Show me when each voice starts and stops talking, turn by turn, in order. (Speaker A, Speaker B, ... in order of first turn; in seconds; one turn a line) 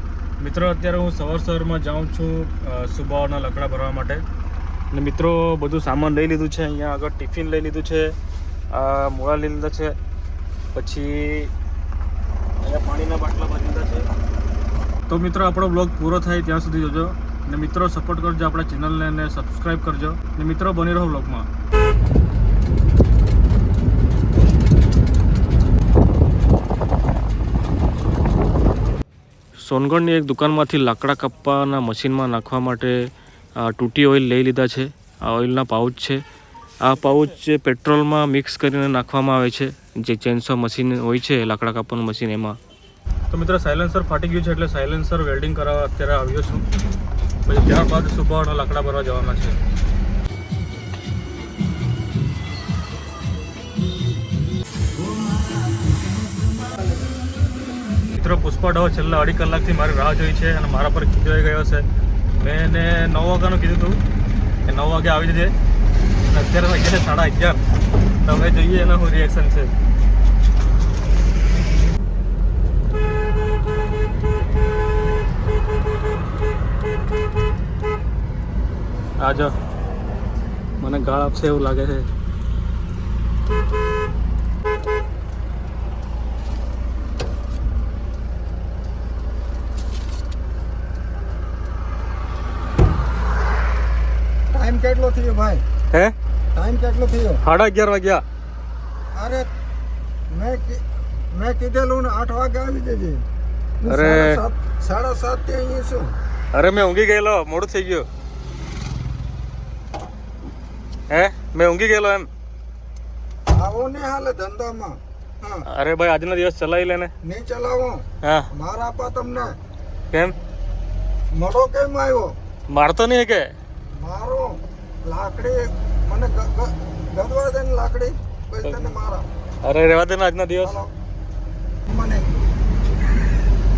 Speaker A: 0.4-4.2
Speaker A: 4.9-8.1
Speaker A: 8.7-9.9
Speaker A: 10.7-11.5
Speaker A: 12.6-14.1
Speaker A: 15.1-21.5
Speaker A: 29.6-33.0
Speaker A: 33.6-36.2
Speaker A: 36.8-42.6
Speaker A: 43.3-46.6
Speaker A: 47.5-49.6
Speaker A: 58.1-61.9
Speaker A: 62.4-64.0
Speaker A: 64.7-65.5
Speaker A: 66.2-67.6
Speaker A: 68.2-69.7
Speaker A: 79.2-79.5
Speaker A: 80.8-82.0
Speaker B: 94.5-95.6
Speaker B: 96.5-97.4
Speaker A: 97.4-98.2
Speaker B: 99.1-99.5
Speaker B: 100.3-103.2
Speaker B: 103.8-106.1
Speaker A: 103.8-104.4
Speaker A: 106.5-108.0
Speaker A: 111.1-112.3
Speaker B: 113.5-115.6
Speaker A: 115.7-117.1
Speaker B: 117.2-119.5
Speaker A: 118.2-118.5
Speaker A: 120.1-120.3
Speaker B: 121.3-122.3
Speaker A: 122.7-123.5
Speaker B: 123.9-129.2
Speaker A: 129.6-130.8
Speaker B: 130.6-130.9
Speaker B: 131.9-132.3